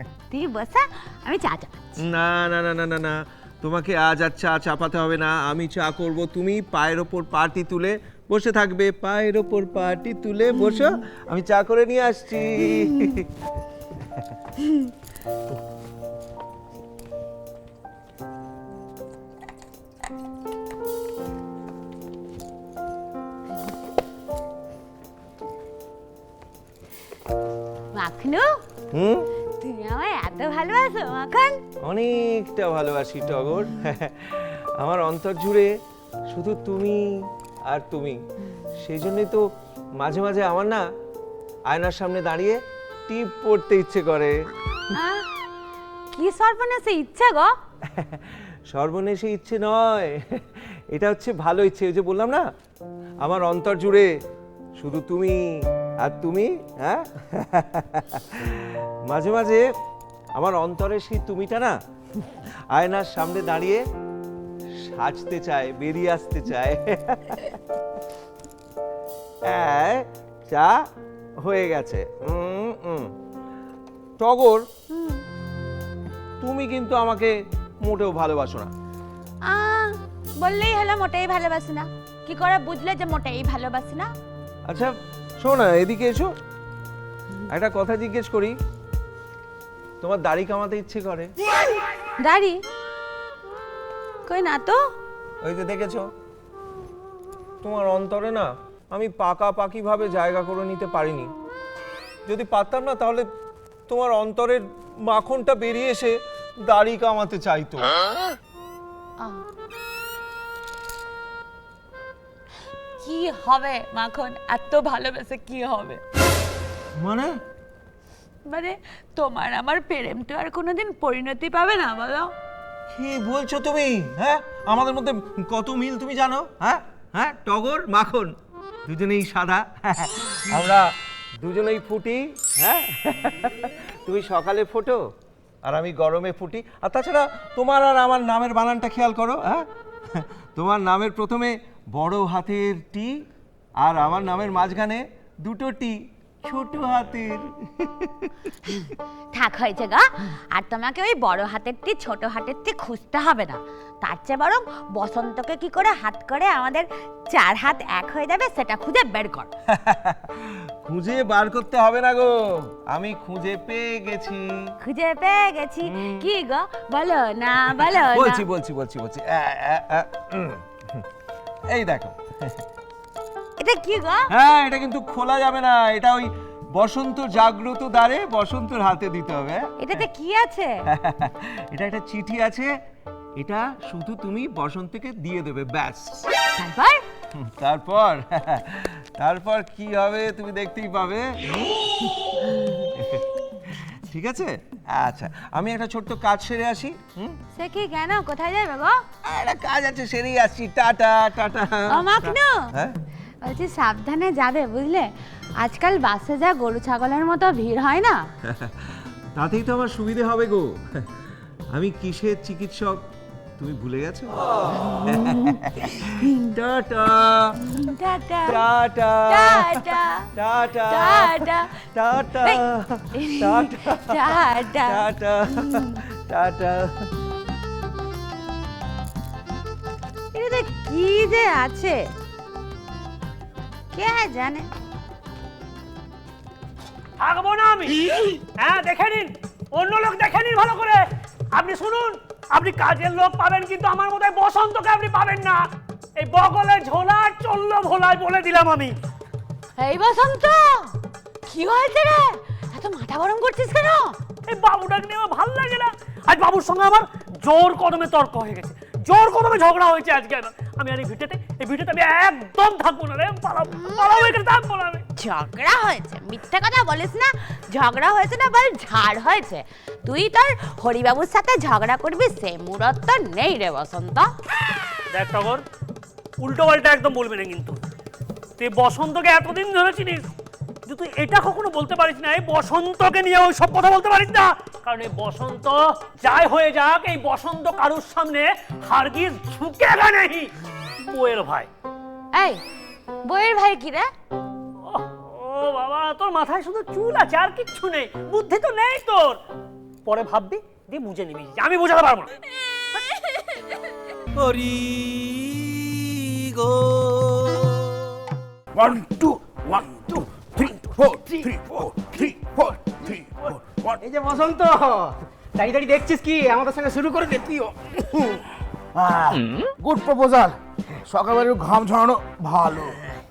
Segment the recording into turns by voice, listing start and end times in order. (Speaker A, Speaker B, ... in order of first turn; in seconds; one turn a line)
Speaker A: 0.3-1.9
Speaker B: 2.0-13.3
Speaker A: 27.9-28.6
Speaker B: 28.9-29.3
Speaker A: 29.6-31.6
Speaker B: 31.8-35.7
Speaker B: 36.3-38.2
Speaker B: 38.8-39.5
Speaker B: 40.0-40.8
Speaker B: 41.7-44.3
Speaker A: 44.9-45.3
Speaker A: 46.1-47.6
Speaker B: 47.9-52.5
Speaker B: 53.2-54.1
Speaker B: 54.8-55.4
Speaker B: 56.0-59.6
Speaker B: 60.4-63.8
Speaker B: 64.8-67.6
Speaker B: 69.5-70.8
Speaker B: 71.4-73.1
Speaker B: 74.2-74.7
Speaker A: 74.9-75.2
Speaker B: 76.4-78.7
Speaker A: 79.5-84.1
Speaker B: 84.7-86.3
Speaker B: 87.5-88.6
Speaker B: 90.0-91.3
Speaker A: 92.2-92.6
Speaker A: 94.3-94.9
Speaker B: 95.4-96.1
Speaker B: 97.6-101.3
Speaker B: 102.3-103.3
Speaker B: 103.9-107.9
Speaker A: 113.0-116.0
Speaker B: 117.0-117.4
Speaker A: 118.5-122.3
Speaker B: 122.9-135.0
Speaker B: 135.6-143.2
Speaker B: 143.8-148.3
Speaker A: 149.3-159.5
Speaker B: 159.7-164.7
Speaker A: 164.8-168.4
Speaker B: 165.8-166.3
Speaker B: 167.8-171.1
Speaker B: 171.7-172.6
Speaker A: 173.6-174.3
Speaker B: 174.3-180.0
Speaker A: 179.8-180.8
Speaker B: 180.9-182.7
Speaker B: 183.4-186.3
Speaker A: 186.6-187.0
Speaker B: 187.4-192.1
Speaker B: 192.9-197.4
Speaker A: 197.5-199.0
Speaker B: 199.2-203.0
Speaker A: 201.9-202.7
Speaker A: 203.4-208.3
Speaker B: 208.5-211.1
Speaker B: 211.7-213.0
Speaker B: 213.6-217.6
Speaker A: 217.7-218.7
Speaker B: 218.5-227.1
Speaker A: 219.3-220.3
Speaker A: 220.9-221.7
Speaker A: 223.2-226.0
Speaker A: 230.3-232.1
Speaker A: 233.9-234.7
Speaker C: 237.2-238.0
Speaker C: 238.6-245.7
Speaker C: 246.2-248.9
Speaker A: 249.8-254.2
Speaker C: 254.5-265.0
Speaker A: 263.7-264.3
Speaker A: 265.2-274.3
Speaker C: 275.1-275.6
Speaker C: 276.4-277.8
Speaker C: 278.6-280.3
Speaker C: 280.9-291.7
Speaker A: 292.3-292.6
Speaker A: 293.2-294.1
Speaker C: 294.8-299.4
Speaker C: 300.1-302.3
Speaker D: 304.4-307.9
Speaker E: 308.7-314.0
Speaker F: 314.0-318.3
Speaker E: 318.9-323.0